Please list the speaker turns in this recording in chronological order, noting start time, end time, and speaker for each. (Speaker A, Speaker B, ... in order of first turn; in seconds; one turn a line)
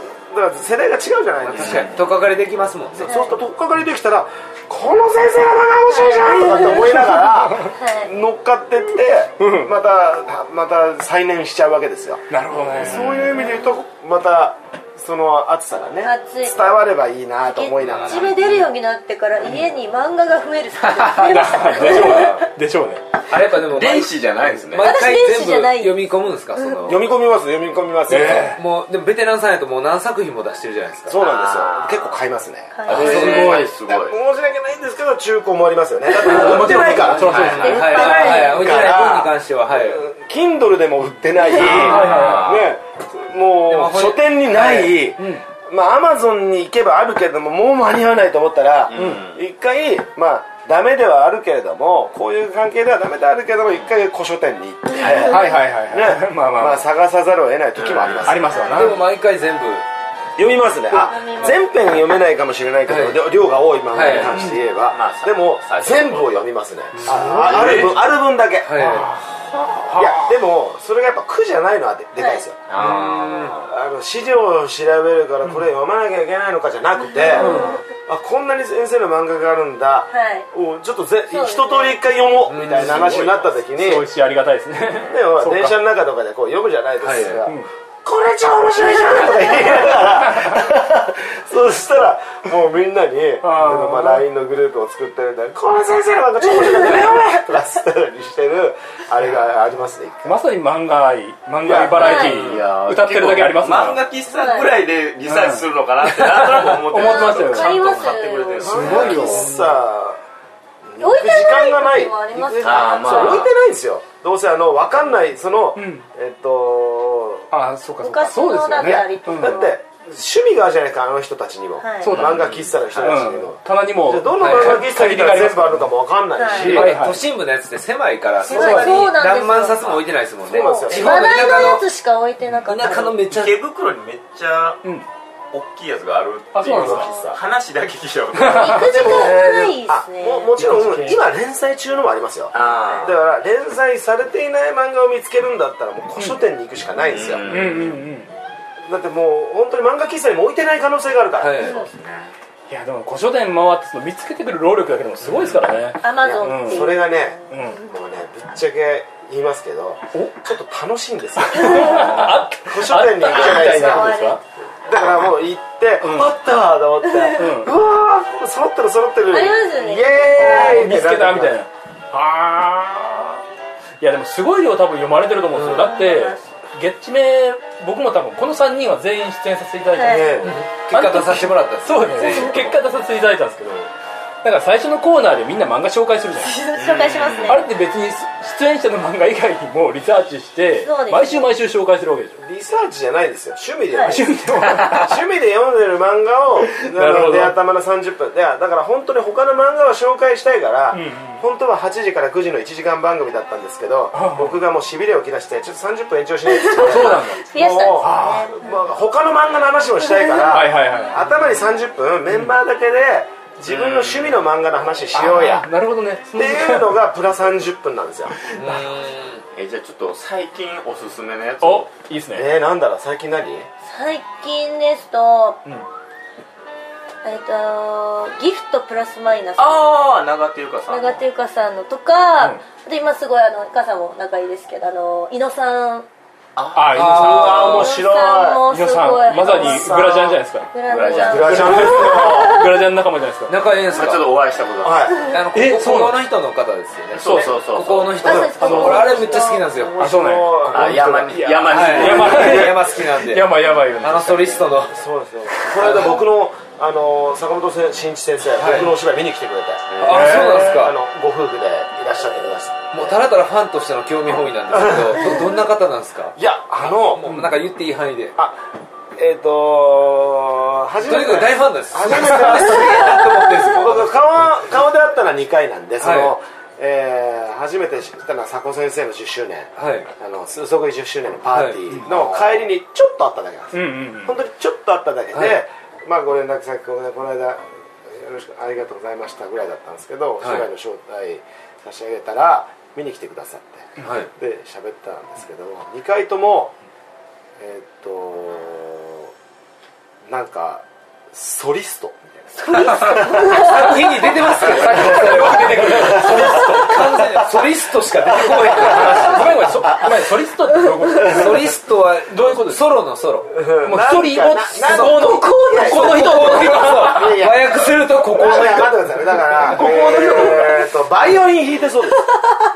Speaker A: 0.2-2.0
Speaker B: 1.4-3.1
Speaker C: 1.5-1.9
Speaker A: 3.0-18.4
Speaker D: 3.1-3.4
Speaker D: 6.0-6.6
Speaker D: 7.6-8.1
Speaker E: 9.4-9.7
Speaker E: 12.3-13.3
Speaker D: 16.0-16.8
Speaker D: 17.4-22.4
Speaker C: 17.8-18.3
Speaker E: 21.1-23.0
Speaker B: 21.9-22.4
Speaker B: 23.3-27.0
Speaker C: 23.5-24.9
Speaker D: 24.8-26.1
Speaker A: 26.9-28.6
Speaker E: 28.1-28.6
Speaker B: 28.2-31.2
Speaker A: 31.1-58.5
Speaker C: 31.2-32.1
Speaker D: 32.7-33.0
Speaker C: 32.9-34.2
Speaker E: 32.9-33.6
Speaker B: 32.9-33.6
Speaker E: 36.2-38.0
Speaker B: 36.3-40.0
Speaker C: 37.2-37.8
Speaker D: 37.6-38.9
Speaker C: 41.5-42.7
Speaker E: 41.7-42.6
Speaker B: 43.7-45.0
Speaker E: 45.2-45.4
Speaker C: 48.9-49.4
Speaker E: 55.1-56.8
Speaker C: 57.8-58.4
Speaker E: 58.2-59.0
Speaker D: 58.5-59.0
Speaker B: 58.7-59.9
Speaker A: 60.4-69.1
Speaker D: 60.9-61.7
Speaker B: 62.9-63.2
Speaker B: 63.9-64.4
Speaker C: 64.8-66.5
Speaker C: 67.0-68.0
Speaker B: 67.0-67.9
Speaker E: 67.0-67.7
Speaker B: 68.7-69.1
Speaker E: 68.8-70.3
Speaker A: 69.9-72.6
Speaker D: 72.2-72.4
Speaker C: 72.7-73.7
Speaker B: 72.7-73.5
Speaker A: 73.6-84.1
Speaker D: 77.3-77.8
Speaker E: 77.3-77.8
Speaker D: 80.1-80.5
Speaker D: 81.3-82.0
Speaker B: 82.5-83.3
Speaker C: 82.7-83.5
Speaker E: 83.7-85.7
Speaker A: 85.0-100.4
Speaker B: 87.0-87.4
Speaker E: 87.4-87.7
Speaker E: 93.4-94.2
Speaker E: 100.2-104.0
Speaker A: 101.6-102.2
Speaker C: 101.8-109.5
Speaker D: 101.9-102.4
Speaker D: 104.3-104.7
Speaker E: 105.2-108.1
Speaker D: 106.9-109.5
Speaker A: 108.6-110.2
Speaker E: 108.7-109.5
Speaker A: 110.9-117.5
Speaker D: 111.0-113.5
Speaker C: 112.6-113.5
Speaker E: 115.8-116.0
Speaker E: 117.5-119.6
Speaker D: 118.0-119.7
Speaker A: 118.8-127.0
Speaker D: 121.8-122.1
Speaker E: 122.0-122.5
Speaker C: 122.2-123.0
Speaker E: 123.0-125.9
Speaker B: 124.4-124.8
Speaker D: 126.3-126.8
Speaker B: 126.6-131.8
Speaker E: 126.6-127.2
Speaker D: 128.5-129.9
Speaker A: 128.5-128.9
Speaker E: 128.6-129.0
Speaker A: 130.4-131.2
Speaker D: 130.5-133.2
Speaker B: 132.7-133.6
Speaker C: 133.2-134.8
Speaker C: 135.5-139.5
Speaker E: 136.5-137.2
Speaker A: 136.7-137.4
Speaker E: 138.3-138.9
Speaker D: 138.4-140.5
Speaker A: 138.8-147.8
Speaker E: 140.6-141.2
Speaker C: 142.5-143.1
Speaker C: 147.1-148.0
Speaker E: 147.4-148.3
Speaker A: 148.9-151.8
Speaker B: 151.4-151.8
Speaker C: 151.7-152.3
Speaker E: 152.7-156.9
Speaker D: 156.0-157.8
Speaker A: 156.2-164.1
Speaker E: 157.5-157.8
Speaker E: 161.4-164.4
Speaker D: 163.2-164.4
Speaker A: 164.9-171.6
Speaker E: 166.0-166.3
Speaker E: 167.3-167.7
Speaker D: 169.3-170.9
Speaker E: 170.4-173.4
Speaker E: 174.0-183.9
Speaker B: 175.5-175.9
Speaker D: 175.7-176.4
Speaker D: 179.9-180.4
Speaker A: 180.0-180.6
Speaker B: 180.4-182.8
Speaker E: 184.4-186.6
Speaker D: 186.4-187.7
Speaker C: 186.7-187.6
Speaker E: 187.4-192.4
Speaker D: 190.8-191.5
Speaker A: 192.4-194.3
Speaker D: 193.9-194.2
Speaker E: 194.1-195.1
Speaker A: 194.9-215.7
Speaker E: 196.7-197.6
Speaker E: 200.9-201.4
Speaker E: 204.1-204.6
Speaker D: 206.5-208.7
Speaker E: 206.8-207.5
Speaker E: 208.0-208.5
Speaker E: 210.4-211.2
Speaker C: 213.7-214.4
Speaker E: 215.1-217.0
Speaker A: 216.3-218.3
Speaker E: 218.4-218.9
Speaker B: 218.5-219.4
Speaker C: 219.5-221.9
Speaker E: 221.6-222.5
Speaker A: 222.3-223.7
Speaker D: 223.8-225.6
Speaker D: 227.2-229.9
Speaker C: 229.6-231.2
Speaker D: 230.9-236.1
Speaker C: 236.6-237.1
Speaker E: 236.7-240.7
Speaker B: 236.9-237.9
Speaker A: 237.0-238.6
Speaker D: 237.3-239.9
Speaker A: 239.4-240.4
Speaker D: 240.7-242.6
Speaker C: 240.8-241.9
Speaker A: 241.2-242.7
Speaker E: 241.3-243.6
Speaker B: 243.5-244.3
Speaker C: 243.8-245.0
Speaker A: 244.8-245.3
Speaker B: 245.3-250.0
Speaker E: 245.5-246.2
Speaker C: 247.1-248.6
Speaker E: 247.2-247.5
Speaker D: 248.2-249.7
Speaker E: 248.5-249.3
Speaker A: 249.6-252.8
Speaker E: 250.0-254.7
Speaker C: 250.7-252.7
Speaker B: 251.7-255.0
Speaker A: 254.9-263.2
Speaker B: 255.8-256.2
Speaker B: 258.6-258.9
Speaker C: 259.9-260.2
Speaker B: 260.0-260.9
Speaker E: 260.1-260.8
Speaker B: 262.9-268.3
Speaker A: 264.9-265.2
Speaker A: 266.4-267.3
Speaker E: 267.3-267.5
Speaker A: 268.4-268.6
Speaker A: 269.1-296.7
Speaker B: 271.0-274.2
Speaker B: 276.0-276.3
Speaker B: 279.8-280.1
Speaker B: 281.5-282.1
Speaker E: 283.7-284.3
Speaker B: 285.3-285.6
Speaker B: 290.4-290.7
Speaker B: 294.0-294.3
Speaker A: 297.6-299.3
Speaker A: 300.2-303.9
Speaker D: 302.6-303.9
Speaker B: 302.8-309.7
Speaker E: 304.6-307.4
Speaker A: 304.7-306.8
Speaker A: 308.5-309.3
Speaker E: 308.7-312.8
Speaker B: 311.2-313.5
Speaker A: 313.5-322.3
Speaker E: 313.8-317.4
Speaker B: 314.8-319.0
Speaker B: 319.6-320.8
Speaker E: 319.6-320.9